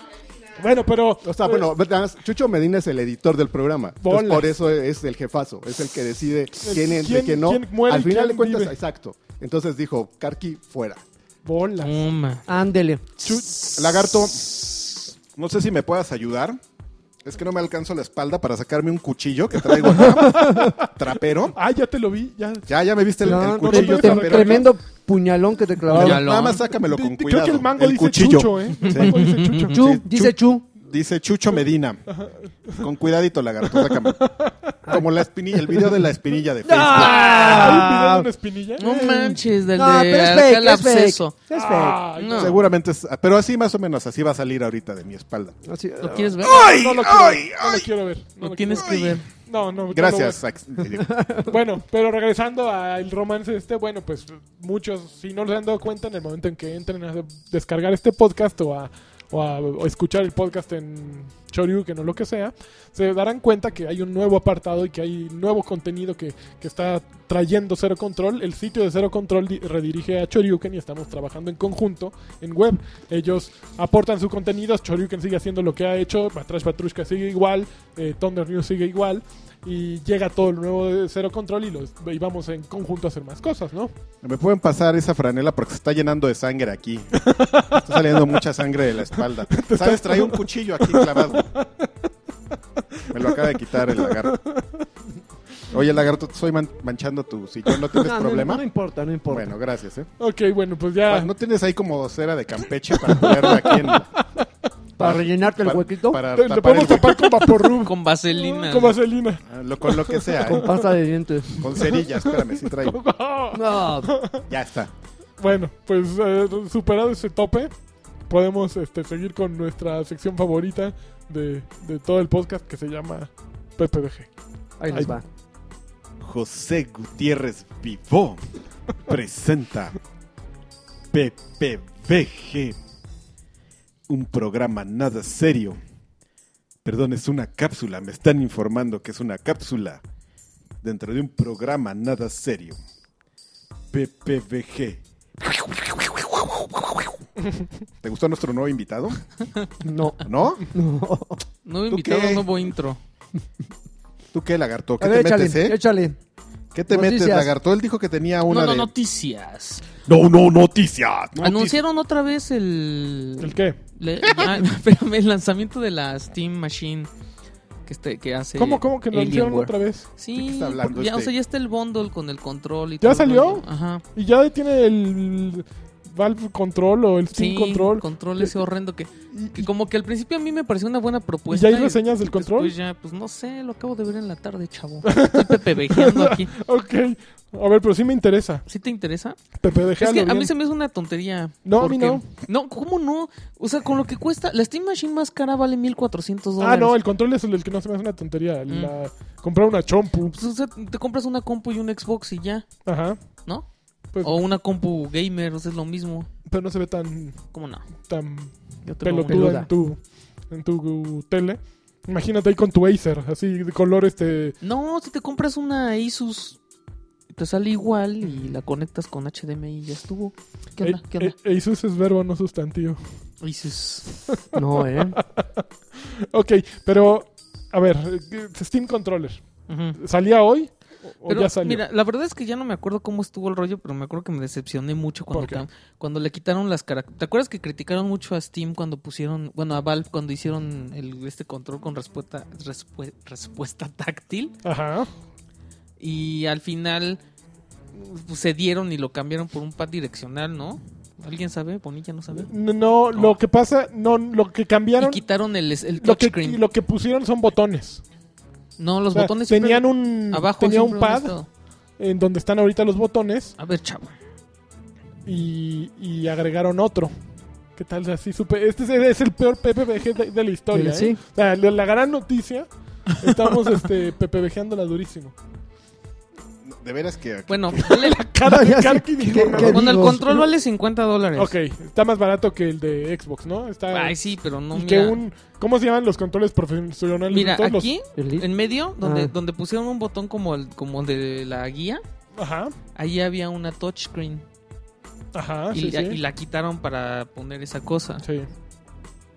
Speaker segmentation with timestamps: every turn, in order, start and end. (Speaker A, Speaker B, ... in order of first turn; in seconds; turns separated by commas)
Speaker A: 0.6-1.7, Speaker B: 1.2-11.0, Speaker A: 4.0-4.5, Speaker A: 6.6-8.7, Speaker A: 11.4-12.0, Speaker C: 11.8-12.4, Speaker D: 12.5-13.1, Speaker A: 13.2-14.0, Speaker E: 13.7-16.6, Speaker E: 17.2-21.6, Speaker A: 19.7-24.7, Speaker D: 20.4-20.7, Speaker E: 22.7-24.7, Speaker D: 23.2-26.3, Speaker C: 25.9-26.6, Speaker A: 25.9-30.0, Speaker E: 25.9-32.0, Speaker C: 28.9-29.7, Speaker D: 29.7-30.7, Speaker A: 32.1-32.9, Speaker E: 32.8-34.3, Speaker A: 33.6-34.8, Speaker E: 34.9-37.4, Speaker D: 36.6-38.3, Speaker A: 36.9-38.8, Speaker C: 36.9-37.9, Speaker C: 38.8-41.4, Speaker D: 38.8-42.2, Speaker A: 41.5-42.7, Speaker C: 42.1-42.5, Speaker E: 42.4-45.6, Speaker D: 45.6-46.4, Speaker C: 46.0-46.7, Speaker E: 46.4-47.9, Speaker A: 46.4-50.4, Speaker C: 48.4-49.2, Speaker E: 48.8-49.2, Speaker E: 49.9-51.2, Speaker D: 51.1-51.5, Speaker A: 51.5-83.9, Speaker E: 84.2-91.5, Speaker A: 87.2-88.4, Speaker A: 89.1-91.9, Speaker A: 93.1-94.9, Speaker E: 93.1-94.4, Speaker E: 95.7-98.6, Speaker D: 98.0-99.5, Speaker E: 99.3-100.1, Speaker A: 100.2-101.3, Speaker E: 101.1-104.1, Speaker A: 103.0-104.5, Speaker D: 105.0-106.2, Speaker E: 105.0-107.7, Speaker A: 106.3-110.8, Speaker C: 107.7-109.0, Speaker E: 109.5-110.8, Speaker D: 110.4-111.6, Speaker A: 111.5-114.4, Speaker E: 111.6-113.0, Speaker D: 113.5-114.3, Speaker E: 114.5-114.9, Speaker A: 115.4-117.7, Speaker A: 118.3-124.3, Speaker D: 124.8-125.2, Speaker A: 124.9-125.2, Speaker E: 126.2-130.0, Speaker E: 131.1-132.8, Speaker E: 134.1-135.8, Speaker E: 136.8-140.0, Speaker E: 140.8-142.8, Speaker E: 143.9-147.2, Speaker E: 148.0-149.4, Speaker D: 149.8-151.4, Speaker E: 150.2-150.7, Speaker C: 151.6-153.0, Speaker E: 151.9-152.5, Speaker E: 154.3-155.8, Speaker D: 155.0-156.2, Speaker E: 156.7-158.9, Speaker D: 156.9-157.5, Speaker C: 158.5-159.8, Speaker E: 160.0-161.8, Speaker C: 161.4-167.1, Speaker A: 163.4-163.8, Speaker E: 164.3-164.6, Speaker C: 167.8-174.0, Speaker A: 168.6-170.1, Speaker E: 170.3-171.3, Speaker A: 173.0-178.5, Speaker C: 177.3-186.5, Speaker A: 179.3-179.7, Speaker A: 181.5-182.7, Speaker A: 185.1-188.6, Speaker C: 188.7-189.4, Speaker A: 189.6-190.5, Speaker C: 190.0-196.9, Speaker A: 191.6-192.3, Speaker A: 196.6-200.3, Speaker C: 198.7-198.9, Speaker C: 200.3-202.8, Speaker A: 202.8-203.5, Speaker C: 203.4-206.3, Speaker A: 206.4-214.6, Speaker C: 207.5-207.8, Speaker C: 208.8-209.6, Speaker D: 209.3-209.7, Speaker C: 214.6-216.6, Speaker C: 217.3-221.3, Speaker A: 220.8-223.0, Speaker C: 223.4-224.2, Speaker D: 224.5-225.2, Speaker A: 225.0-231.8, Speaker C: 229.7-230.0, Speaker C: 231.3-244.5, Speaker A: 235.3-235.6, Speaker A: 244.6-245.1, Speaker C: 246.0-247.2, Speaker C: 247.9-252.5, Speaker A: 252.3-255.2, Speaker C: 253.1-253.4, Speaker C: 255.0-256.6, Speaker A: 255.9-258.0, Speaker C: 258.8-261.5, Speaker A: 259.1-261.4, Speaker A: 262.0-263.5, Speaker C: 263.6-264.1, Speaker A: 265.2-267.1, Speaker A: 267.8-275.3, Speaker D: 270.7-271.2, Speaker E: 276.6-277.9, Speaker C: 277.5-278.2, Speaker A: 277.8-280.4, Speaker D: 278.4-280.4, Speaker C: 279.3-281.5, Speaker A: 281.4-287.9, Speaker C: 283.9-285.2, Speaker C: 287.3-292.0, Speaker D: 288.1-288.5, Speaker D: 289.0-289.3, Speaker A: 292.3-292.8, Speaker C: 292.9-294.4, Speaker A: 295.3-296.2, Speaker C: 295.7-298.2, Speaker A: 298.2-298.5